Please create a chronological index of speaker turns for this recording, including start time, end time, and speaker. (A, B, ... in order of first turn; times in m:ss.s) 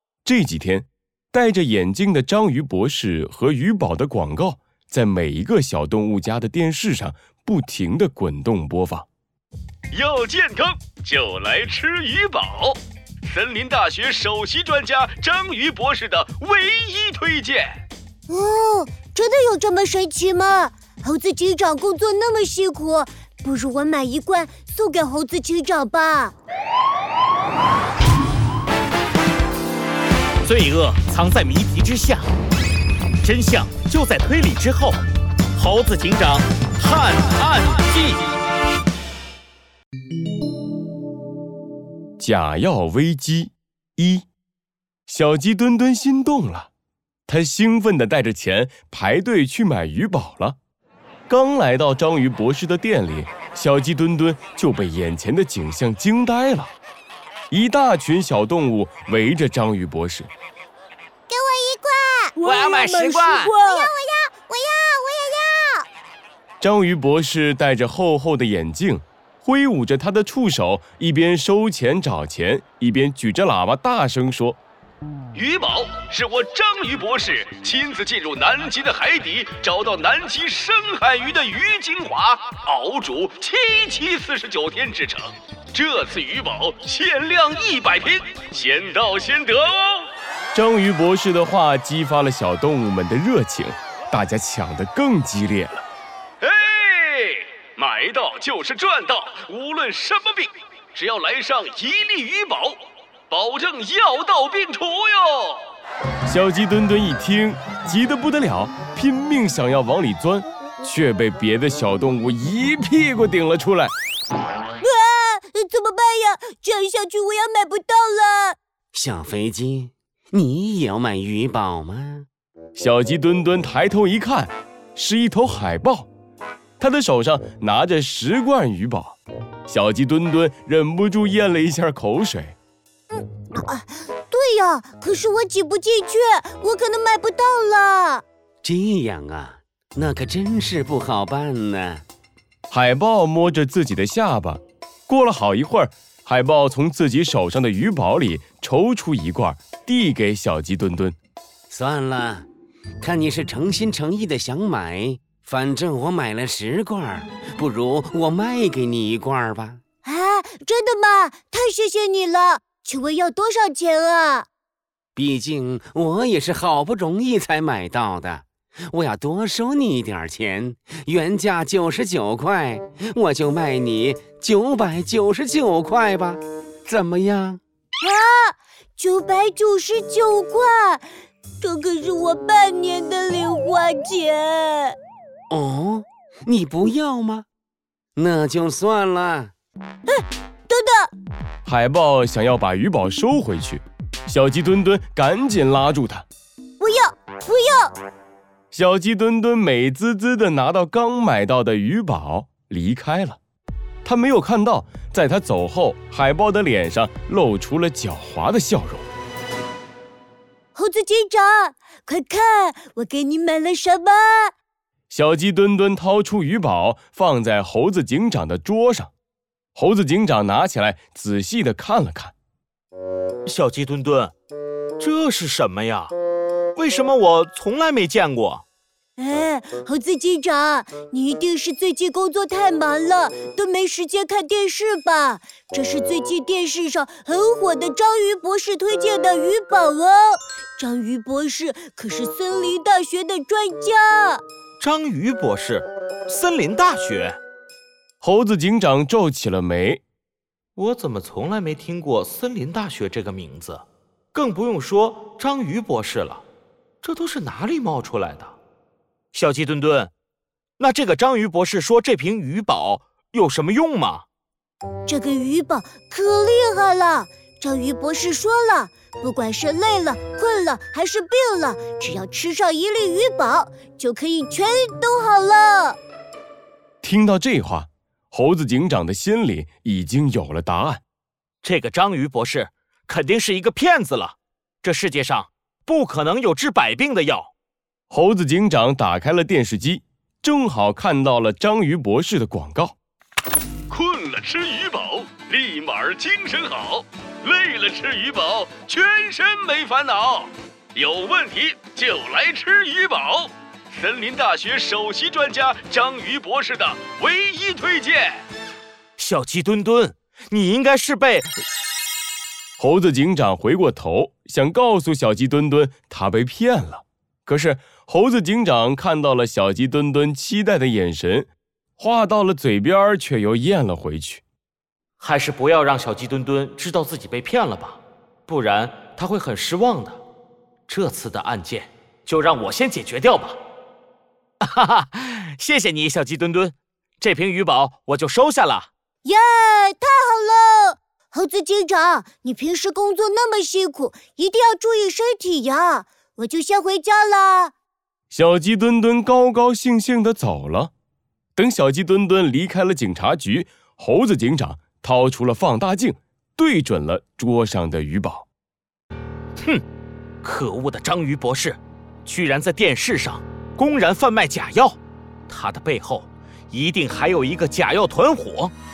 0:00.3-0:09.1 A
0:10.0-0:12.8 B
0:13.3-0:17.6 B
0:18.3-0:26.4 C
0:30.4-0:32.3 D
0:33.2-0:35.0 D
0:35.6-0:38.2 D
0:42.2-0:44.2 A
0:45.1-0:46.7 A
0:47.3-0:50.6 A
0:51.3-0:56.7 A
0:57.5-1:00.3 A
1:01.3-1:05.9 C
1:02.4-1:03.6 D
1:02.5-1:03.1 B
1:06.6-1:14.6 A
1:15.4-1:30.1 B
1:30.5-1:35.8 A
1:36.5-1:42.8 B
1:43.3-1:45.7 B
1:46.3-1:53.9 A
1:54.8-1:58.6 C
1:58.9-2:02.3 E
2:02.8-2:06.1 A
2:06.8-2:12.6 A
2:13.1-2:18.2 C
2:18.6-2:22.0 E
2:22.7-2:31.2 A
2:31.7-2:32.5 E
2:33.0-2:39.8 E
2:40.0-2:44.5 C
2:45.2-2:57.6 E
2:58.0-3:01.1 C
3:01.6-3:05.0 C
3:05.5-3:07.5 E
3:08.2-3:09.5 E
3:10.1-3:11.1 C
3:11.6-3:16.3 A
3:16.8-3:17.9 C
3:18.7-3:23.4 A
3:24.0-3:29.1 A
3:30.7-3:34.5 C
3:35.1-3:39.1 A
3:39.8-3:42.3 A
3:43.5-3:44.3 D
3:45.0-3:46.1 D
3:46.8-3:48.6 D
3:49.2-4:04.4 C
4:04.8-4:07.4 D
4:08.2-4:10.0 A
4:10.8-4:16.4 D
4:17.0-4:18.6 D
4:19.3-4:20.1 D
4:20.8-4:24.3 D
4:25.1-4:36.0 C
4:37.0-4:41.0 A
4:41.6-4:47.5 D
4:48.1-4:53.0 A
4:54.0-5:00.5 B
4:58.0-4:59.0 A
5:01.0-5:03.5 B
5:04.1-5:08.4 B
5:09.2-5:11.6 D
5:12.8-5:24.4 A
5:25.2-5:30.2 D
5:30.9-5:33.6 D
5:34.6-5:38.9 D
5:39.2-5:47.7 C
5:48.3-5:50.9 A
5:51.6-5:58.5 A
6:00.4-6:08.7 D